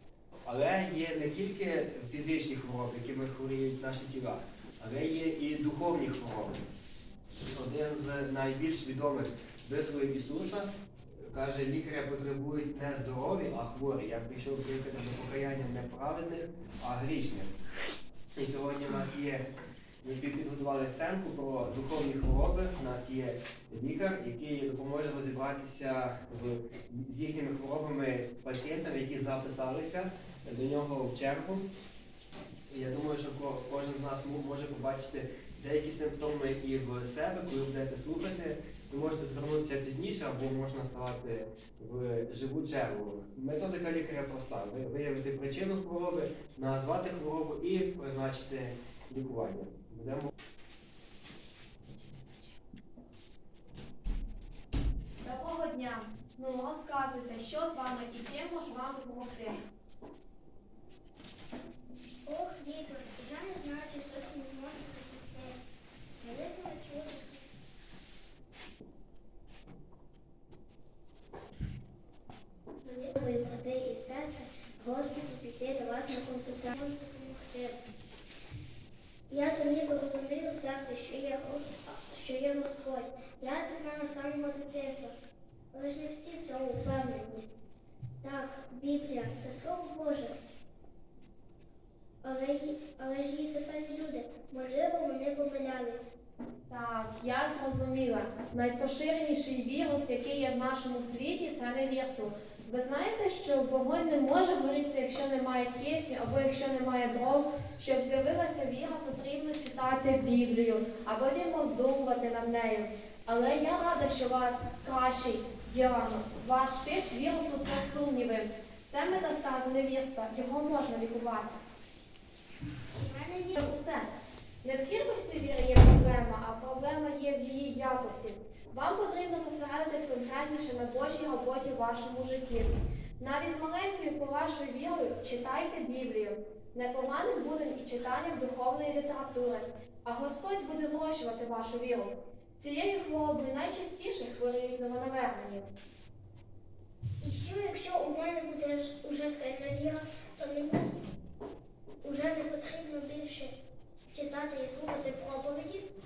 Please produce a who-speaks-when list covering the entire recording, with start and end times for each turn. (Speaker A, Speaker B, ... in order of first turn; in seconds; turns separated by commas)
Speaker A: 0.4-6.6, Speaker A: 7.5-17.5, Speaker A: 18.4-19.4, Speaker A: 20.0-31.7, Speaker A: 32.7-50.3, Speaker B: 55.2-59.6, Speaker C: 62.2-65.6, Speaker C: 66.2-67.4, Speaker C: 72.8-77.8, Speaker C: 79.3-85.1, Speaker C: 85.7-87.5, Speaker C: 88.2-90.3, Speaker C: 92.2-96.1, Speaker B: 96.7-121.5, Speaker C: 123.0-123.5, Speaker B: 123.5-124.1, Speaker B: 124.6-145.7, Speaker C: 147.2-150.9, Speaker C: 152.0-153.5, Speaker C: 154.1-155.8